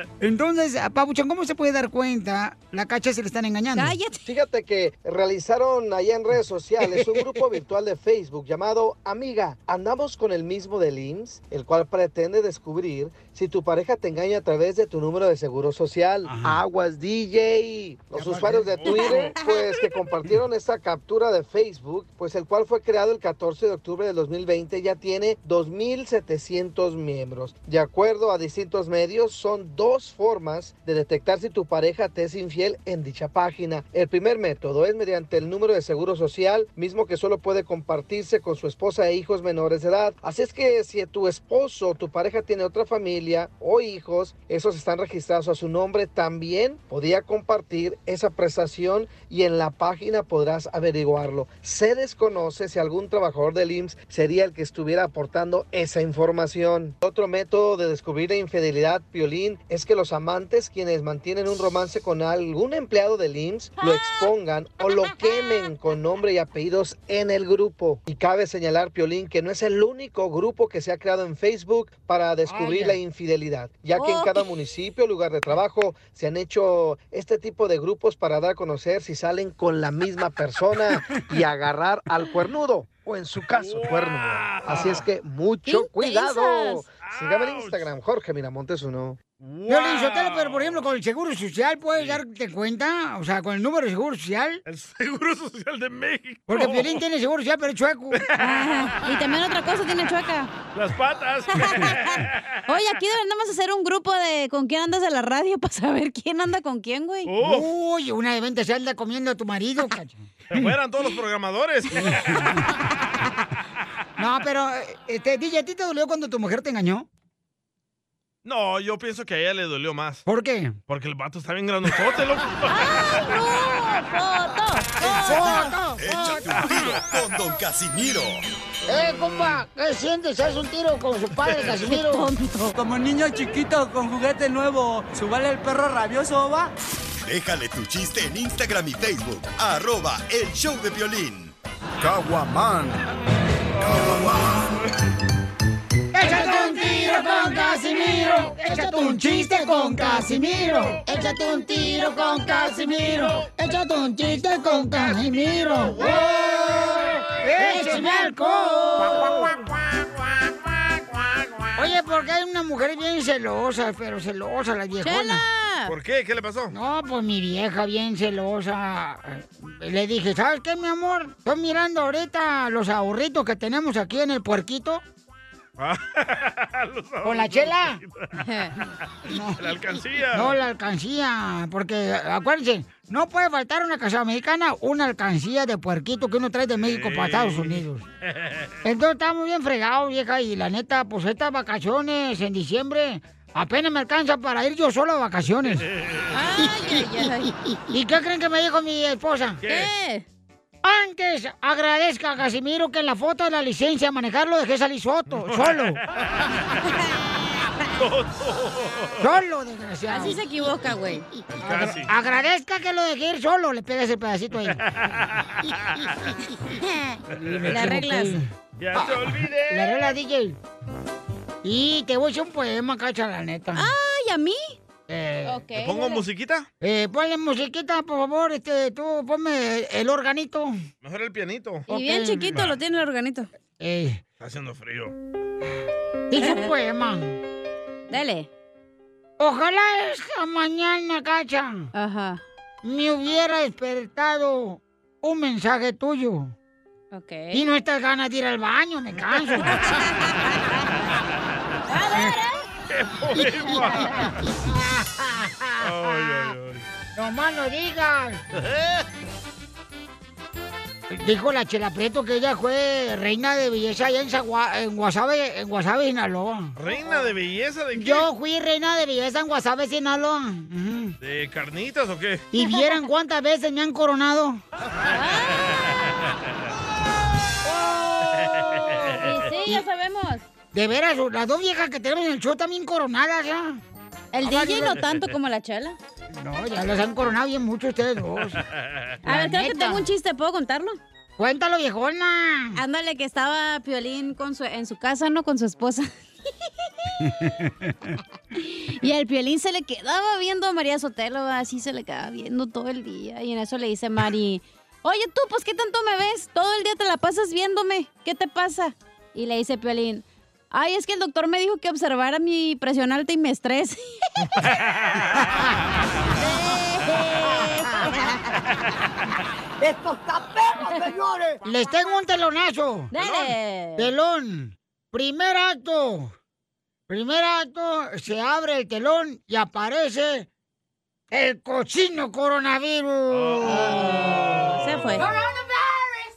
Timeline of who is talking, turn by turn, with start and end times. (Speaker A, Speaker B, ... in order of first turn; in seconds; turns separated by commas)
Speaker A: 0.2-4.0, Speaker B: 3.7-4.2, Speaker C: 4.2-89.2, Speaker A: 7.0-7.3, Speaker A: 16.3-16.6, Speaker A: 18.1-18.8, Speaker B: 18.9-19.4, Speaker B: 63.8-64.2, Speaker B: 65.1-65.5, Speaker A: 72.5-73.0, Speaker B: 74.0-74.4, Speaker D: 83.5-85.1, Speaker B: 85.7-86.8, Speaker D: 87.0-87.9, Speaker D: 89.4-90.9, Speaker A: 89.7-94.6, Speaker D: 91.9-92.2, Speaker D: 94.7-97.0, Speaker A: 96.5-98.2, Speaker D: 98.1-98.9, Speaker B: 98.4-100.5, Speaker D: 100.7-102.6, Speaker B: 101.5-107.3, Speaker D: 107.3-107.7, Speaker A: 107.4-110.7, Speaker D: 110.5-112.6, Speaker A: 114.2-117.1, Speaker D: 118.4-120.2, Speaker A: 120.3-120.8, Speaker D: 120.9-123.1, Speaker B: 122.7-125.7, Speaker D: 125.0-125.7, Speaker A: 125.1-126.8, Speaker E: 126.0-128.4, Speaker A: 128.9-132.3, Speaker D: 128.9-129.6, Speaker D: 131.4-131.8, Speaker B: 131.8-132.8, Speaker F: 132.8-136.7, Speaker E: 137.2-141.6, Speaker A: 146.1-159.5, Speaker D: 152.8-153.5, Speaker D: 154.8-157.8, Speaker B: 157.7-159.3, Speaker D: 159.2-159.5, Speaker A: 161.8-165.4, Speaker B: 165.0-165.9, Speaker D: 165.9-166.7, Speaker A: 166.7-175.0, Speaker D: 175.8-178.3, Speaker A: 177.2-178.0, Speaker B: 178.4-178.8, Speaker A: 179.3-179.8, Speaker D: 179.3-180.6, Speaker A: 180.3-188.0, Speaker D: 186.8-188.7, Speaker A: 188.8-195.8, Speaker D: 196.0-196.3, Speaker B: 196.3-197.5, Speaker A: 197.9-199.6, Speaker D: 199.6-199.9, Speaker B: 199.7-200.3, Speaker A: 200.8-206.0, Speaker D: 205.3-206.8, Speaker D: 207.9-209.2, Speaker A: 209.2-210.4, Speaker B: 210.1-211.2, Speaker D: 211.5-212.1, Speaker A: 211.6-214.8, Speaker D: 214.7-216.2, Speaker B: 216.9-217.2, Speaker D: 217.3-217.9, Speaker A: 217.3-220.6, Speaker B: 217.7-218.4, Speaker D: 218.8-220.1, Speaker A: 221.6-223.9, Speaker B: 223.8-224.8, Speaker A: 225.1-225.6, Speaker B: 225.4-226.2, Speaker D: 225.7-226.7, Speaker A: 226.8-230.8, Speaker D: 231.0-231.9, Speaker B: 231.9-233.5, Speaker A: 231.9-232.6, Speaker A: 233.8-234.2, Speaker D: 234.4-235.1, Speaker A: 236.3-237.4, Speaker B: 236.4-236.7, Speaker B: 238.1-238.5, Speaker A: 239.4-241.9, Speaker B: 241.9-242.4, Speaker A: 242.8-246.5, Speaker B: 247.1-247.6, Speaker A: 247.5-249.8, Speaker D: 249.2-249.6, Speaker B: 249.7-250.8, Speaker B: 251.9-252.6, Speaker D: 252.9-254.4, Speaker A: 255.2-255.8, Speaker D: 255.8-256.8, Speaker A: 257.2-258.4, Speaker D: 258.6-259.1, Speaker A: 261.1-266.7, Speaker D: 266.8-268.3, Speaker A: 267.9-271.1, Speaker D: 271.2-272.5, Speaker A: 272.5-274.6, Speaker B: 272.6-273.0, Speaker B: 275.1-275.7, Speaker D: 278.4-279.4, Speaker B: 279.0-280.4, Speaker A: 280.7-283.8, Speaker B: 284.3-286.0, Speaker A: 284.4-285.0, Speaker D: 285.0-285.2, Speaker A: 286.3-288.6, Speaker D: 288.5-289.1, Speaker B: 289.2-291.0, Speaker A: 289.3-290.1, Speaker A: 291.4-292.8, Speaker B: 292.8-296.1, Speaker A: 297.3-297.9, Speaker B: 298.6-314.5, Speaker D: 314.5-315.7, Speaker B: 316.4-318.2, Speaker B: 320.9-321.1, Speaker A: 321.6-323.1, Speaker B: 323.1-324.1, Speaker D: 323.2-323.5, Speaker A: 324.0-326.3, Speaker A: 327.1-330.5, Speaker A: 331.3-333.9, Speaker D: 333.3-335.2, Speaker B: 333.6-335.3, Speaker A: 335.4-335.6